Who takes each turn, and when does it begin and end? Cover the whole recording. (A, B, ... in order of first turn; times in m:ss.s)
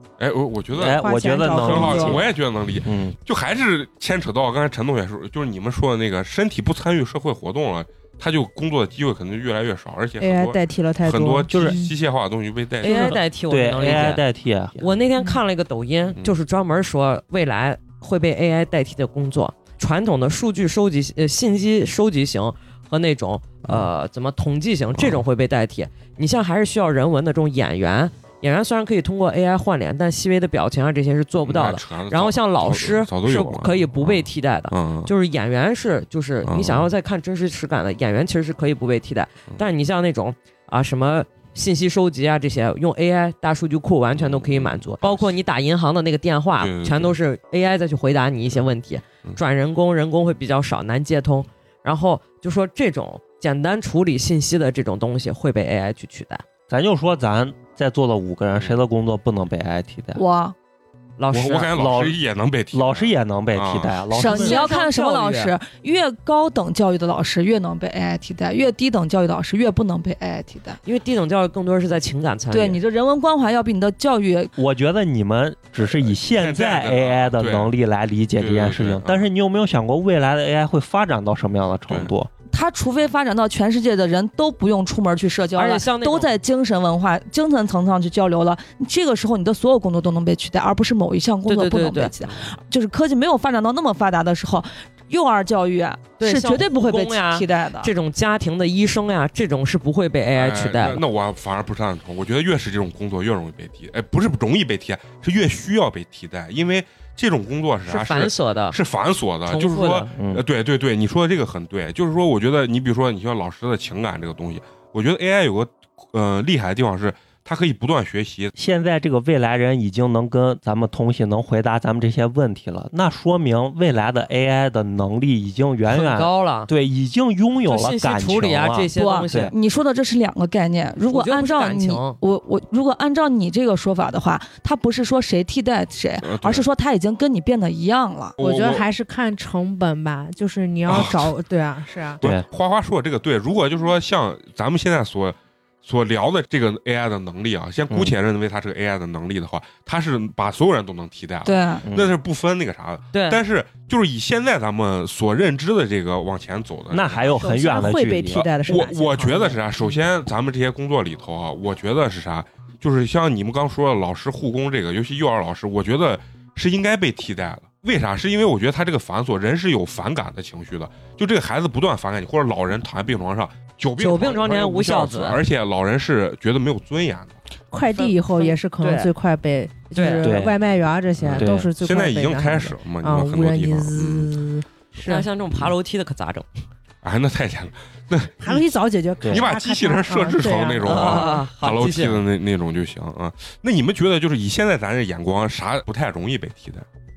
0:00.2-0:13.2 A
0:00.7-0:02.3 B
0:00.9-0:02.2 C
0:02.8-0:03.2 B
0:10.2-0:11.9 C
0:11.5-0:11.8 B
0:12.8-0:14.2 D
0:12.9-0:15.0 B
0:14.8-0:56.4 D
0:25.0-0:25.2 A
0:31.4-0:35.1 A
0:36.4-0:36.9 A
0:44.2-0:45.3 A
0:46.6-0:47.2 A
0:56.7-1:00.2 B
1:00.2-1:00.6 E
1:01.2-1:01.7 D
1:01.3-1:04.0 A
1:01.7-1:02.2 B
1:02.7-1:04.7 B
1:04.1-1:10.8 E
1:04.2-1:05.6 D
1:10.8-1:12.8 D
1:12.5-1:14.5 E
1:14.6-1:22.3 B
1:15.8-1:17.7 A
1:18.4-1:19.3 A
1:21.9-1:22.1 A
1:22.5-1:37.9 E
1:25.6-1:26.3 D
1:31.5-1:32.1 D
1:36.2-1:41.0 D
1:40.4-1:58.5 A
1:47.9-1:48.8 D
1:49.5-1:50.1 D
1:50.2-1:50.4 B
1:58.6-2:09.5 B
2:05.9-2:06.7 D
2:07.7-2:09.5 D
2:09.0-2:18.4 E
2:11.0-2:12.2 D
2:16.2-2:16.7 A
2:18.4-2:18.9 A
2:18.4-2:22.2 C
2:20.9-2:21.3 A
2:22.2-2:37.4 A
2:31.4-2:31.9 E
2:31.8-2:32.1 B
2:33.1-2:33.4 D
2:36.9-2:38.5 B
2:37.4-2:39.6 C
2:38.3-2:57.4 A
2:54.0-2:55.4 D
2:57.7-3:05.3 C
2:57.9-2:59.1 D
2:59.9-3:00.3 D
3:00.2-3:00.6 B
3:01.2-3:04.3 A
3:01.4-3:01.7 B
3:05.0-3:06.5 D
3:07.0-3:08.7 A
3:08.4-3:11.3 C
3:09.2-3:09.5 B
3:09.3-3:16.9 A
3:10.8-3:12.2 D